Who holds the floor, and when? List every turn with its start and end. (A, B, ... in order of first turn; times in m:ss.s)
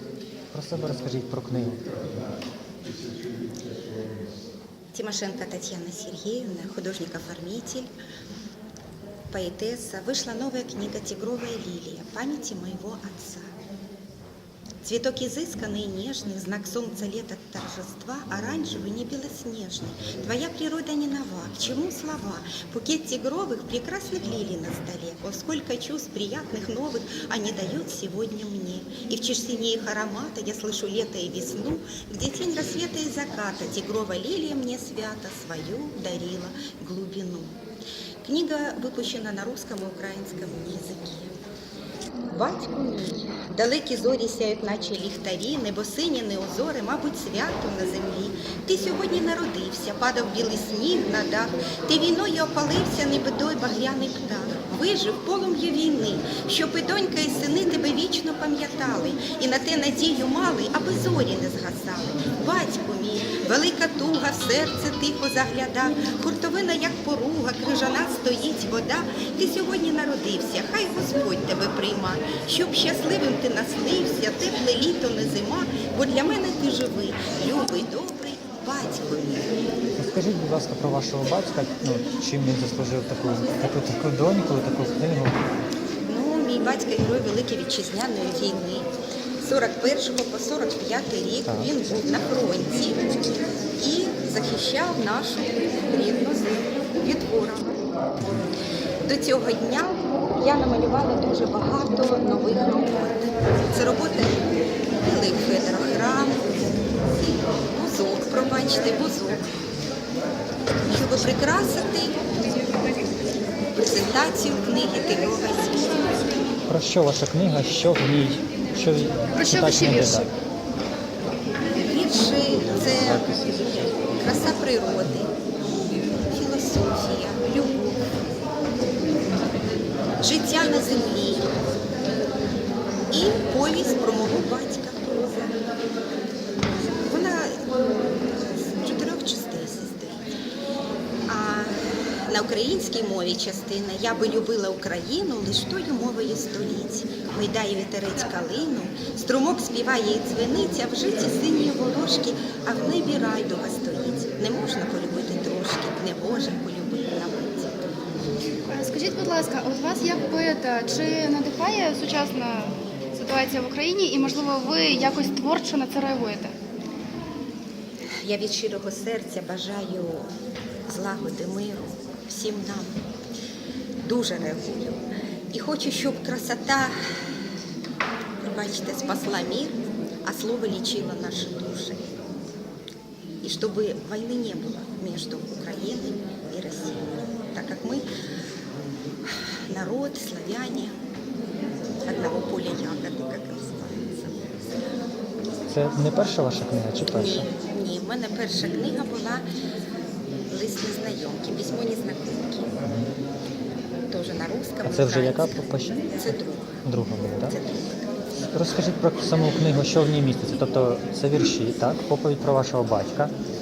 0:00.5-0:01.9 A
0:04.9-0:07.9 B
0:09.3-0:13.5 B
0:14.8-0:37.6 B
0:38.2-0:41.3 B
0:42.3-1:19.5 B
1:20.0-1:25.5 A
1:26.0-1:28.9 B
1:29.4-1:33.0 B
1:33.8-1:37.8 B
1:39.0-1:44.4 B
1:45.0-1:46.5 B
1:47.1-1:49.4 B
1:50.9-1:52.2 B
1:53.7-1:56.0 B
1:56.7-2:00.3 A
1:59.3-2:00.3 C
2:01.8-2:05.3 B
2:06.3-2:08.0 B
2:10.2-2:11.5 B
2:13.1-2:15.5 B
2:16.8-2:17.6 B
2:18.8-2:20.2 B
2:21.3-2:37.8 B
2:38.7-2:46.5 C
2:48.2-2:50.3 B
2:50.9-2:53.0 B
2:54.0-2:56.9 B
2:58.4-3:02.2 B
3:03.4-3:08.0 B
3:09.3-3:10.9 B
3:12.0-3:14.4 B
3:15.7-3:17.5 A
3:17.1-3:19.4 B
3:20.5-3:22.7 B
3:24.1-3:26.8 B
3:24.8-3:27.5 A
3:27.4-3:28.1 B
3:28.5-3:33.3 A